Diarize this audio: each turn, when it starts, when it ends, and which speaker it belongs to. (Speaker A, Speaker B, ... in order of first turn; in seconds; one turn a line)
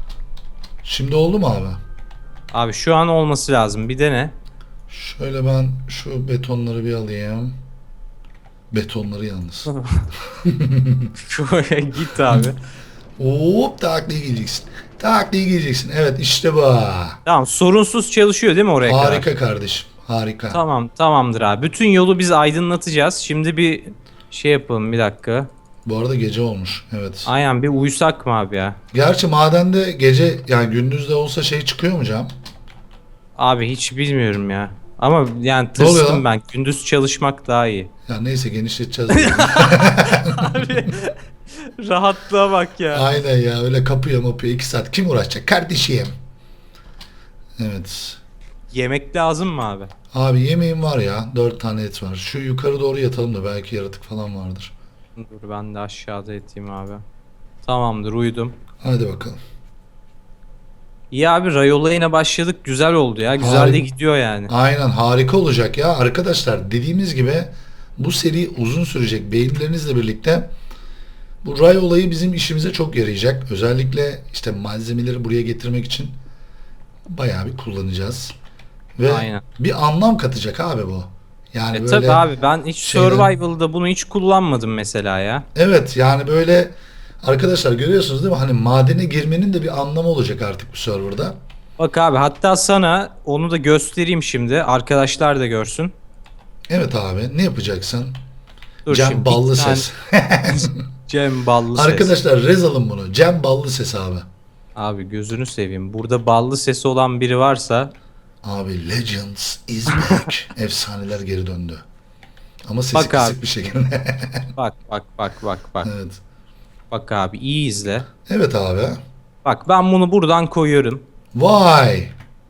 Speaker A: 0.8-1.8
Speaker B: 2.5-4.3
Speaker A: 4.9-7.6
Speaker A: 8.7-9.7
Speaker B: 9.7-10.1
Speaker A: 10.3-11.1
Speaker B: 11.2-12.6
Speaker A: 13.2-17.2
Speaker B: 17.2-19.3
Speaker A: 18.8-20.6
Speaker B: 20.5-25.5
Speaker A: 25.9-27.3
Speaker B: 27.2-28.8
Speaker A: 28.9-32.3
Speaker B: 33.4-37.9
Speaker A: 35.8-36.2
Speaker A: 38.1-40.9
Speaker B: 39.1-43.1
Speaker A: 42.9-46.1
Speaker A: 47.6-48.2
Speaker B: 48.7-49.9
Speaker A: 50.1-54.7
Speaker B: 55.2-57.0
Speaker B: 57.6-58.5
Speaker A: 58.8-59.4
Speaker B: 61.1-64.5
Speaker A: 63.4-63.9
Speaker A: 64.5-70.5
Speaker A: 71.4-76.2
Speaker A: 77.1-78.3
Speaker A: 79.0-82.2
Speaker B: 79.1-79.4
Speaker B: 81.7-85.5
Speaker A: 82.8-83.3
Speaker A: 85.5-91.4
Speaker B: 91.8-95.9
Speaker A: 96.7-98.2
Speaker B: 98.9-99.9
Speaker A: 98.9-100.8
Speaker B: 100.5-102.1
Speaker A: 101.8-104.3
Speaker B: 104.8-107.9
Speaker A: 108.4-111.8
Speaker B: 109.9-110.3
Speaker A: 112.7-114.5
Speaker B: 112.9-113.4
Speaker B: 114.6-115.9
Speaker A: 115.8-116.2
Speaker B: 116.9-118.1
Speaker A: 118.3-119.0
Speaker B: 119.5-121.0
Speaker A: 121.3-122.1